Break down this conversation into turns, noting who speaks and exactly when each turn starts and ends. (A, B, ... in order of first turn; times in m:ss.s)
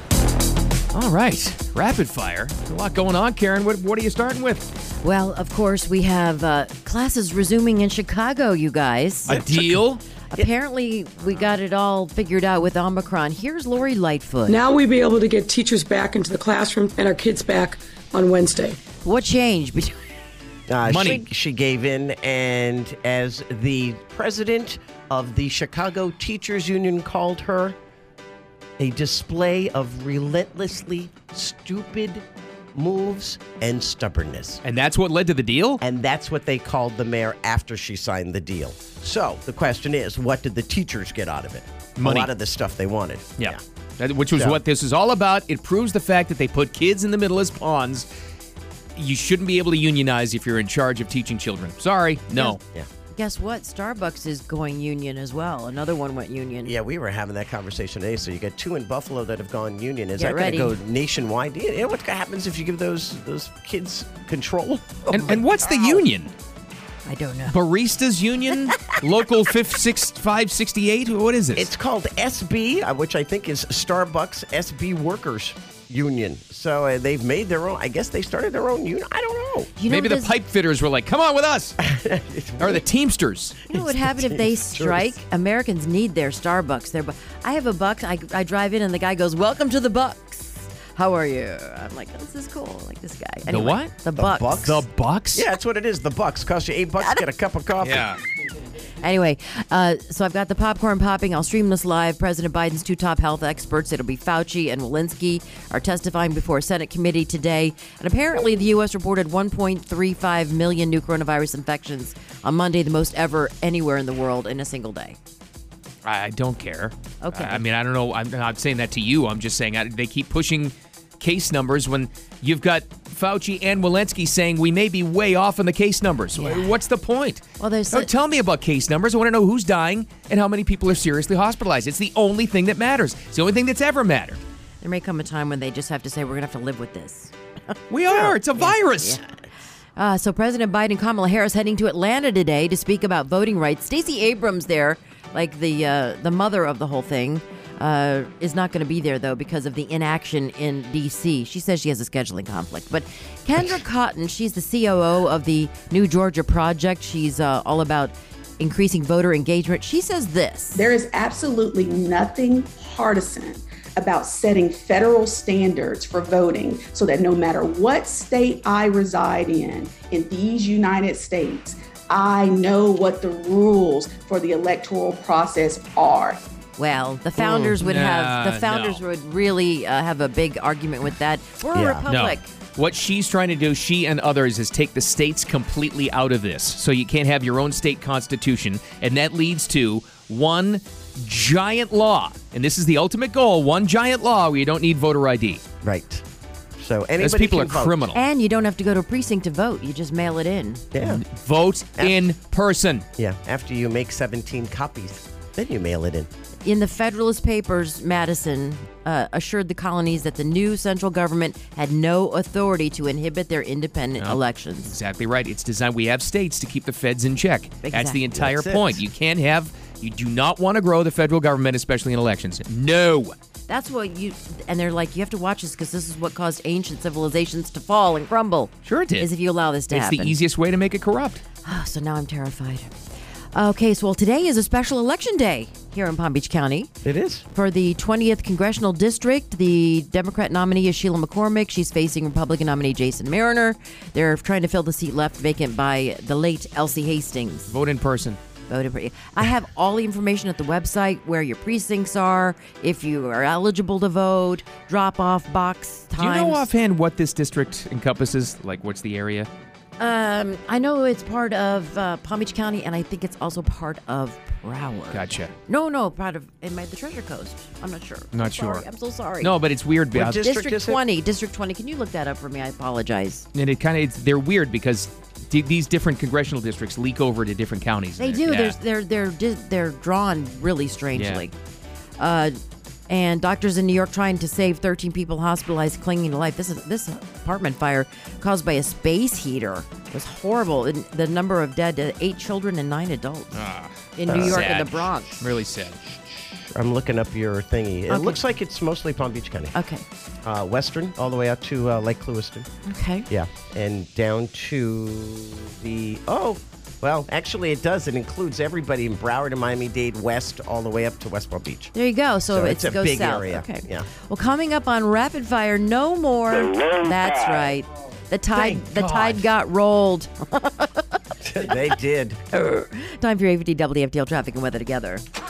0:00.9-0:04.7 A
0:05.0-0:09.4 B
0:09.3-0:09.8 C
0:09.3-0:10.0 A
0:10.3-0:14.6 B
0:14.5-0:18.8 D
0:19.0-0:20.0 B
0:20.7-0:27.8 C
0:20.8-0:21.2 A
0:28.8-0:34.6 C
0:34.6-0:35.8 A
0:35.8-0:43.6 C
0:42.0-0:42.3 A
0:43.4-0:48.1 A
0:44.3-0:44.6 C
0:49.0-0:52.6 A
0:53.1-0:56.8 B
0:56.6-1:06.0 C
1:00.2-1:00.8 B
1:05.1-1:06.3 A
1:05.1-1:05.4 B
1:07.0-1:07.6 B
1:07.5-1:11.7 A
1:11.6-1:19.7 C
1:19.8-1:20.4 B
1:19.9-1:21.8 A
1:21.8-1:22.8 C
1:22.6-1:23.6 A
1:23.7-1:25.1 C
1:23.7-1:34.6 B
1:33.5-1:33.9 A
1:34.2-1:38.1 C
1:34.6-1:35.5 A
1:37.0-1:37.2 B
1:37.8-1:38.2 A
1:39.0-1:55.2 B
1:56.0-2:14.4 A
1:57.2-1:57.6 B
2:06.3-2:06.7 B
2:07.6-2:08.1 B
2:14.8-2:17.3 B
2:17.9-2:19.2 A
2:18.1-2:18.4 C
2:18.6-2:19.2 B
2:20.0-2:40.9 B
2:40.8-2:56.4 E
2:56.8-3:02.5 B
2:57.4-2:57.7 C
2:57.8-2:59.0 A
3:01.7-3:02.1 C
3:02.1-3:15.6 A
3:15.8-3:16.2 C
3:16.8-3:18.1 C
3:17.2-3:18.2 A
3:18.1-3:20.8 B
3:20.9-3:21.2 C
3:21.0-3:23.0 A
3:22.0-3:22.3 C
3:23.2-3:26.3 C
3:26.6-3:35.0 B
3:34.2-3:43.4 A
3:37.8-3:38.2 B
3:38.3-3:39.0 C
3:43.7-3:50.4 B
3:48.8-3:49.3 A
3:49.9-3:51.4 A
3:51.6-3:52.9 B
3:53.5-3:56.9 B
3:57.0-3:57.5 C
3:57.5-4:07.7 B
4:07.7-4:08.4 A
4:08.7-4:16.7 B
4:16.2-4:19.5 A
4:20.0-4:29.5 B
4:25.1-4:25.5 A
4:28.3-4:28.8 A
4:29.4-4:30.4 A
4:30.1-4:31.0 C
4:30.3-4:33.5 B
4:33.6-4:38.8 A
4:38.2-4:41.6 B
4:41.1-4:41.4 A
4:42.2-4:42.6 B
4:43.1-4:53.6 B
4:53.5-4:56.0 A
4:54.2-4:55.4 B
4:54.3-4:54.8 C
4:56.7-4:59.7 C
4:58.1-4:58.4 B
4:59.7-5:00.0 B
5:00.4-5:02.7 C
5:02.9-5:03.3 B
5:03.3-5:11.9 C
5:11.9-5:21.1 B
5:12.5-5:14.1 C
5:18.5-5:19.4 C
5:21.4-5:22.4 C
5:22.5-5:25.2 B